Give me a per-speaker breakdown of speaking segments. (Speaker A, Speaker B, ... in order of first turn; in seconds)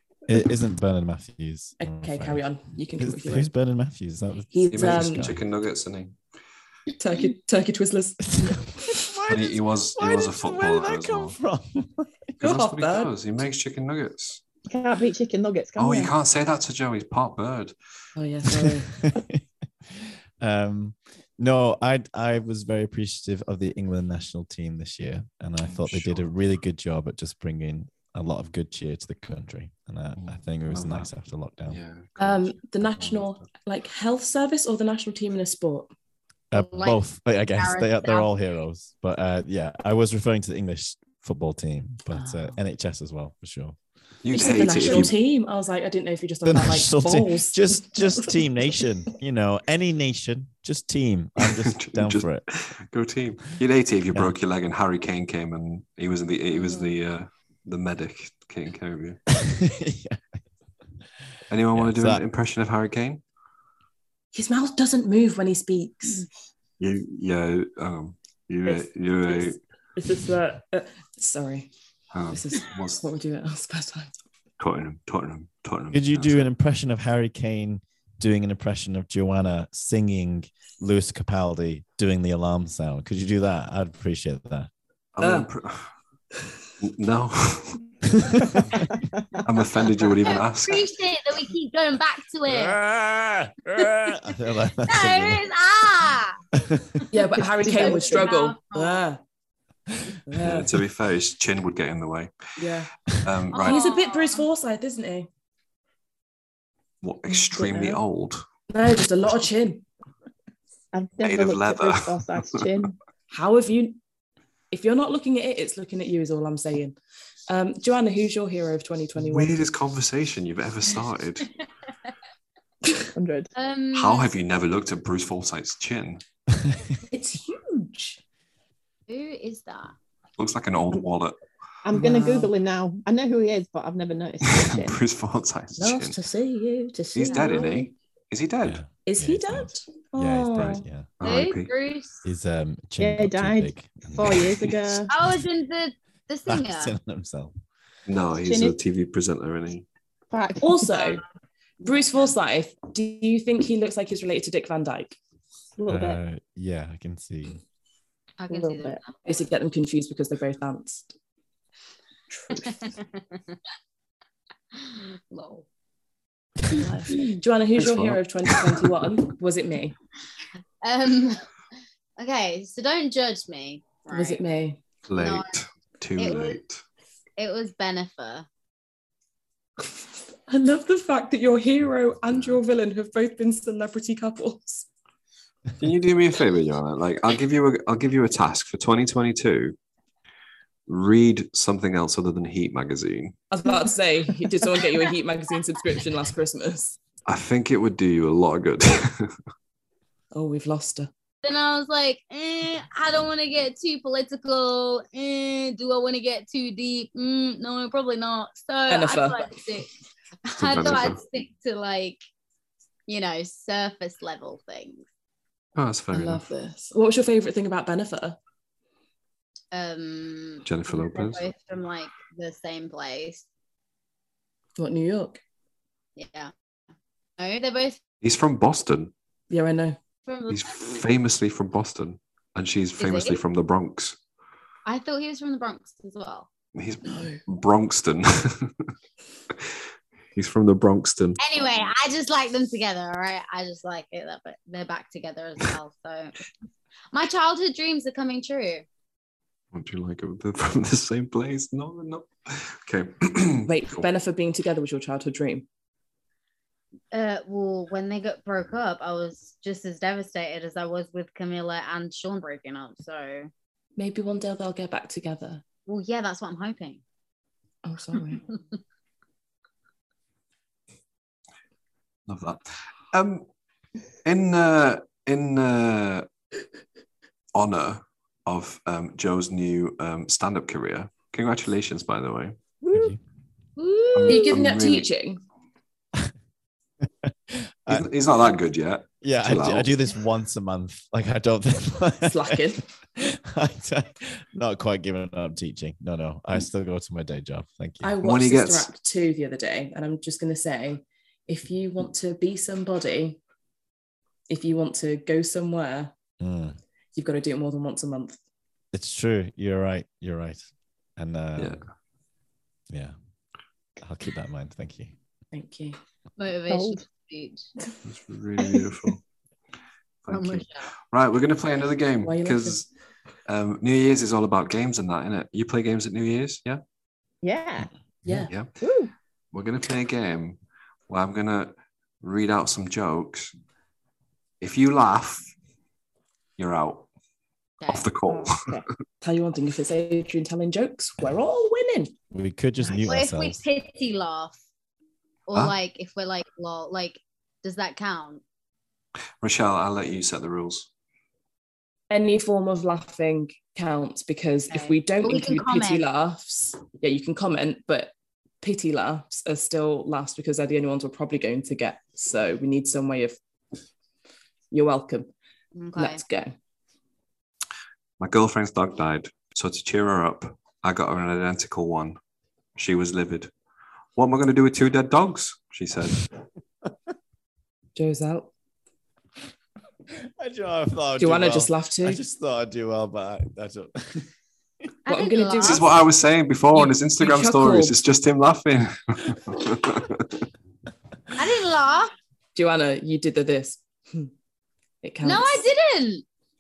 Speaker A: 0.3-2.4, 3.0-5.4, 8.4-12.1, 18.5-31.8, 36.5-43.8, 44.7-45.1, 46.5-52.5, 59.3-60.2, 61.8-62.2, 75.9-84.7, 88.1-88.9, 92.5-95.5, 96.5-97.0, 138.6-141.1, 142.2-144.7, 146.5-147.6, 155.9-157.6, 282.9-283.2, 287.2-288.1, 289.2-298.2, 306.4-306.8, 308.9-310.7, 311.2-311.8, 314.0-315.1, 342.3-343.6, 380.2-384.3
Speaker B: 1.8-3.5, 4.5-5.3, 7.0-9.1, 12.4-13.1, 18.2-18.9, 32.2-35.9, 42.1-42.6, 44.3-48.4, 64.3-66.3, 68.7-71.7, 72.3-74.1, 85.2-85.5, 97.1-99.2, 100.3-100.7, 102.6-102.9, 103.6-105.3, 108.7-109.9, 113.3-114.0, 114.7-117.0, 117.5-119.6, 127.1-128.2, 131.9-132.5, 135.8-137.9, 139.1-140.8, 150.6-151.2, 151.8-155.2, 159.2-161.1, 162.3-162.8, 166.7-169.9, 174.1-174.8, 180.5-184.9, 193.5-197.0, 200.3-201.1, 208.9-209.5, 216.1-218.4, 224.8-225.4, 229.5-230.0, 237.1-237.4, 253.7-255.7, 264.0-265.6, 267.8-268.5, 283.8-285.4, 292.2-292.8, 298.0-303.4, 304.5-306.1, 307.1-308.4, 315.5-316.0, 322.2-322.8, 328.3-328.5, 339.2-342.1, 352.1-363.4, 364.7-365.3, 366.0-366.5, 377.9-378.5, 381.2-382.2, 385.1-385.9, 386.8-388.0, 392.6-394.3, 395.0-395.6
Speaker C: 4.7-6.2, 9.3-11.4, 12.4-14.4, 15.8-17.7, 25.6-26.3, 30.2-31.1, 31.7-33.5, 44.2-45.2, 51.4-59.2, 61.5-63.2, 66.8-69.6, 72.1-73.1, 74.6-76.5, 85.2-85.9, 86.8-87.8, 89.4-90.9, 100.4-102.5, 103.1-103.8, 107.0-108.4, 111.2-112.7, 119.2-121.5, 123.9-126.2, 130.4-131.4, 134.4-136.2, 137.2-138.8, 140.6-141.7, 148.1-149.9, 167.8-168.9, 175.1-176.8, 185.8-189.8, 190.9-193.4, 197.3-199.4, 210.6-211.2, 215.8-216.5, 220.7-221.4, 228.2-229.1, 230.5-234.2, 236.8-238.9, 240.3-241.4, 249.7-254.1, 272.3-273.5, 274.2-276.3, 277.5-282.6, 284.1-285.1, 287.9-289.9, 298.2-298.9, 311.6-311.8, 318.0-319.2, 320.2-322.9, 323.5-326.8, 328.5-328.8, 329.5-330.6, 331.1-333.5, 334.6-335.5, 336.6-337.1, 337.9-338.8, 349.4-350.9, 368.2-372.2, 372.8-373.5, 374.2-376.3, 385.6-390.3
Speaker D: 14.7-16.1, 97.5-98.3, 107.6-108.0, 110.9-113.0, 123.2-123.5, 131.8-135.0, 143.0-145.1, 148.4-148.8, 150.3-151.2, 155.8-156.2, 158.5-159.0, 316.7-317.0, 318.6-318.9, 327.4-327.9, 328.8-329.1, 338.3-338.9
Speaker E: 36.5-37.0, 37.6-38.3, 90.2-92.8, 94.9-96.4, 97.6-99.0, 103.5-104.5, 123.5-124.3, 129.1-129.9, 141.2-142.2, 145.1-146.9, 158.4-159.1, 162.6-163.4, 164.8-165.7, 170.8-171.4, 172.2-174.4, 175.2-175.5, 176.2-176.6, 177.4-178.5, 201.4-209.9, 210.4-212.2, 213.1-215.1, 219.7-223.4, 226.2-226.5, 227.4-228.0, 230.3-230.8, 233.0-233.4, 234.9-236.5, 241.4-246.3, 247.1-248.8, 257.1-263.5, 265.9-267.0, 283.8-284.6, 316.4-317.7, 320.3-320.9, 337.8-338.1, 343.1-344.6, 345.5-348.4, 354.7-356.1, 365.8-366.2, 385.1-385.9, 391.4-392.1, 395.2-396.2